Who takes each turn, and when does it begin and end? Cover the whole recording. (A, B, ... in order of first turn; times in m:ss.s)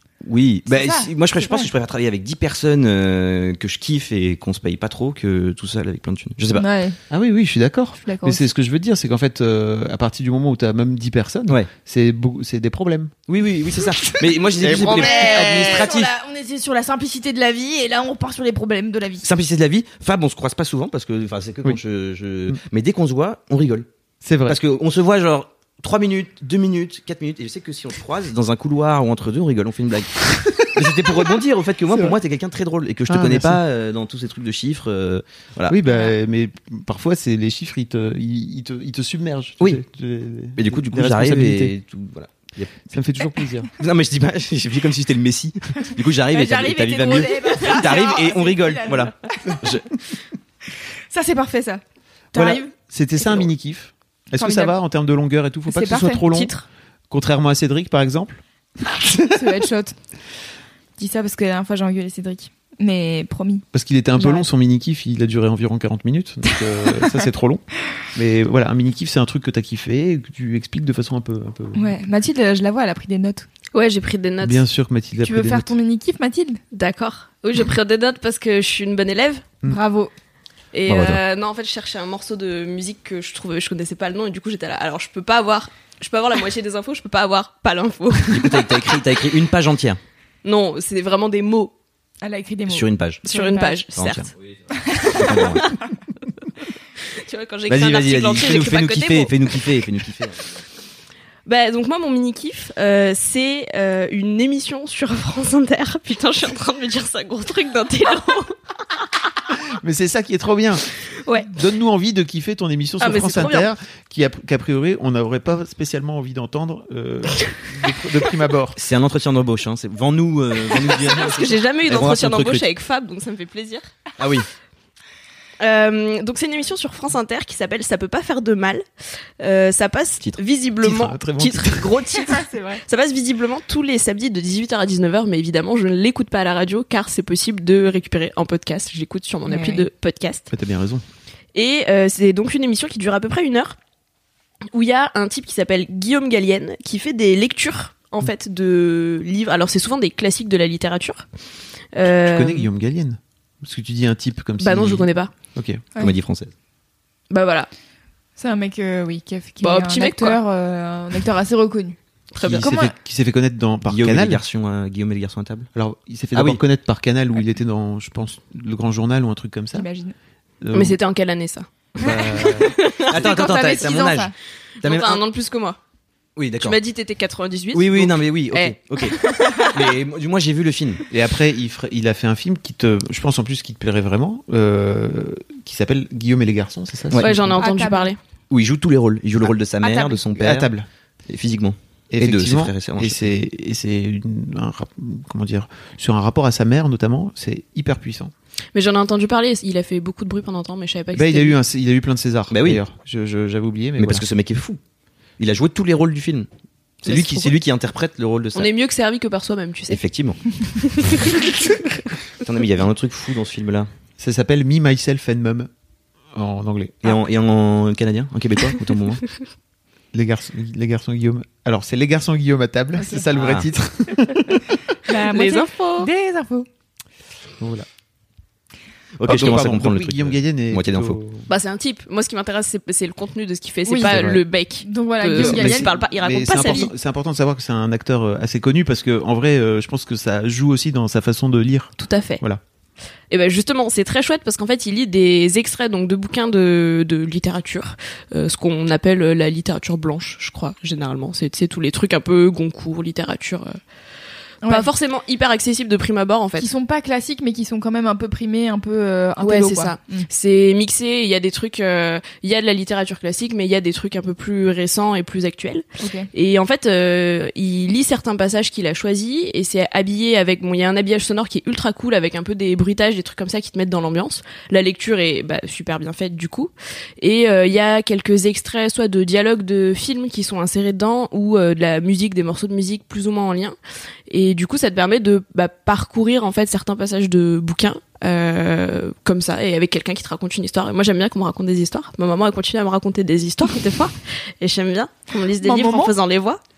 0:00.2-0:06.7 A
0:00.7-0:01.7 B
0:06.5-0:07.0 B
0:07.1-0:13.1 C
0:08.0-0:08.4 B
0:13.3-0:16.1 A
0:13.8-0:15.9 C
0:14.6-0:19.3 B
0:19.2-0:23.9 A
0:24.2-0:24.6 C
0:24.5-0:35.8 A
0:30.5-0:31.2 C
0:31.9-0:32.2 C
0:33.1-0:33.6 C
0:35.7-0:41.8 C
0:40.6-0:42.9 A
0:42.9-0:43.7 C
0:43.8-0:49.9 A
0:46.3-0:49.6 B
0:51.1-0:51.8 B
0:52.3-0:52.7 B
0:52.3-0:56.5 C
0:54.4-0:54.8 B
0:55.7-0:56.2 B
0:56.3-0:56.6 D
0:57.1-0:59.4 C
0:59.3-1:00.0 B
1:01.0-1:03.6 B
1:03.7-1:11.9 C
1:04.2-1:04.5 B
1:11.8-1:13.5 B
1:13.7-1:14.6 D
1:14.4-1:15.7 C
1:15.2-1:16.6 B
1:16.7-1:19.6 D
1:19.7-1:20.1 B
1:20.7-1:28.8 D
1:20.9-1:21.2 A
1:28.3-1:30.0 A
1:30.4-1:31.7 D
1:32.2-1:33.8 B
1:32.7-1:33.3 A
1:33.2-1:34.3 D
1:34.0-1:34.4 A
1:34.8-1:35.4 B
1:35.0-1:35.7 A
1:35.4-1:35.8 D
1:37.1-1:39.8 D
1:37.7-1:40.4 A
1:41.5-1:48.6 D
1:49.6-1:50.8 C
1:51.2-1:51.5 D
1:51.4-1:58.8 C
1:53.0-1:53.7 D
1:58.8-2:02.7 A
2:00.9-2:03.9 D
2:04.2-2:04.5 A
2:05.6-2:08.9 D
2:09.4-2:20.5 D
2:10.8-2:12.0 C
2:12.3-2:12.8 B
2:19.5-2:19.9 B
2:20.5-2:21.0 C
2:21.5-2:23.8 D
2:24.7-2:31.3 D
2:31.9-2:32.7 D
2:32.0-2:35.8 C
2:34.6-2:35.3 D
2:36.0-2:36.5 A
2:37.3-2:37.7 D
2:38.4-2:42.0 B
2:39.6-2:40.4 D
2:42.3-2:42.9 D
2:42.4-2:44.4 C
2:43.9-2:45.7 A
2:45.8-2:49.9 C
2:46.4-2:46.6 A
2:49.7-2:50.2 B
2:50.6-2:51.0 C
2:50.7-2:53.1 D
2:52.0-2:52.8 C
2:53.1-2:54.3 B
2:53.1-2:55.2 A
2:54.8-2:55.8 D
2:56.4-2:56.8 A
2:56.6-2:59.8 D
2:57.7-3:01.0 A
3:01.1-3:07.6 C
3:07.1-3:07.4 A
3:07.2-3:08.2 D
3:07.6-3:08.1 B
3:08.5-3:10.7 A
3:09.8-3:10.2 B
3:10.3-3:10.9 C
3:11.3-3:13.3 A
3:12.1-3:18.3 C
3:18.7-3:21.6 D
3:21.1-3:24.2 C
3:22.5-3:22.8 A
3:24.0-3:24.8 A
3:25.4-3:26.5 A
3:27.0-3:28.7 A
3:27.0-3:27.5 D
3:28.6-3:30.0 D
3:29.9-3:30.4 A
3:30.8-3:31.2 D
3:31.0-3:31.5 A
3:32.4-3:33.9 A
3:34.2-3:35.7 C
3:36.3-3:37.1 C
3:37.0-3:39.2 A
3:40.1-3:44.8 C
3:43.3-3:43.7 A
3:45.1-3:46.7 B
3:45.1-3:46.1 D
3:47.6-3:47.9 C
3:49.2-3:51.2 A
3:49.3-3:51.5 C
3:51.5-3:56.9 D
3:53.9-3:54.1 B
3:54.1-3:54.4 C
3:54.8-3:56.0 B
3:55.4-4:02.6 C
4:02.0-4:02.4 D
4:03.3-4:13.8 D
4:14.6-4:14.9 B
4:14.7-4:16.7 D
4:16.6-4:20.3 B
4:19.4-4:43.8 D
4:26.0-4:26.3 B
4:44.3-4:56.6 D
4:55.6-4:56.2 B